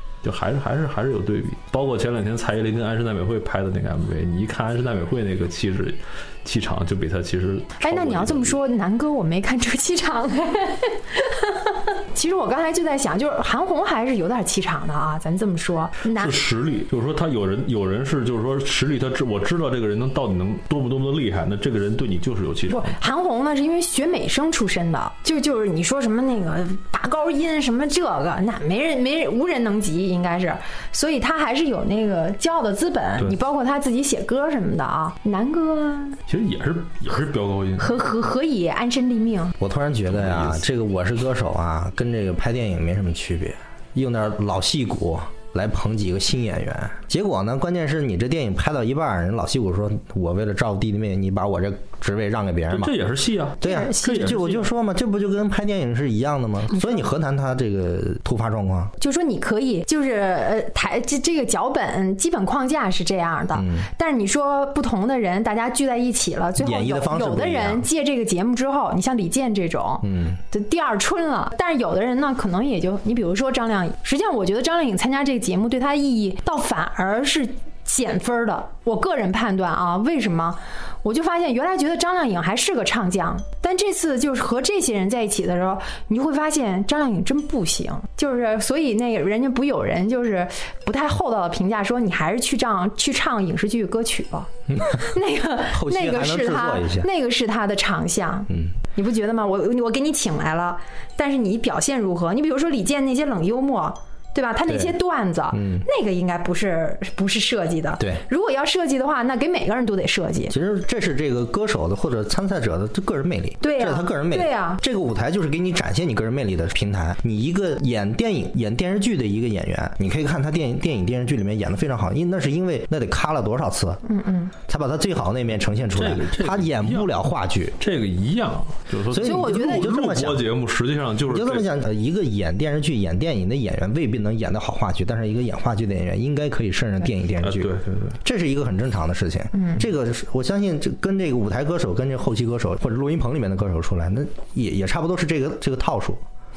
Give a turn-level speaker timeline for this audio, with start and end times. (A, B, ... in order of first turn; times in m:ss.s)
0:00.2-0:08.6 A
0:07.8-0:16.4 B
0:16.1-0:23.0 A
0:22.7-0:36.2 B
0:36.3-0:38.0 A
0:37.8-0:39.5 B
0:39.6-0:52.9 C
0:40.1-0:40.6 A
0:52.7-0:54.7 A
0:53.6-0:58.9 C
0:53.6-0:54.4 B
0:56.7-0:57.0 B
0:59.0-1:50.5 B
1:03.5-1:03.9 C
1:06.6-1:07.8 C
1:10.0-1:10.4 C
1:34.7-1:35.1 C
1:35.7-1:37.1 C
1:44.7-1:45.0 C
1:45.5-1:45.8 C
1:50.5-2:04.0 C
1:53.6-1:54.8 B
2:04.0-2:04.5 B
2:04.7-2:07.8 C
2:05.9-2:07.1 A
2:07.8-2:11.6 A
2:09.1-2:10.4 C
2:09.2-2:09.9 B
2:11.3-2:17.7 C
2:17.4-2:18.2 A
2:18.2-2:26.2 C
2:19.5-2:19.8 B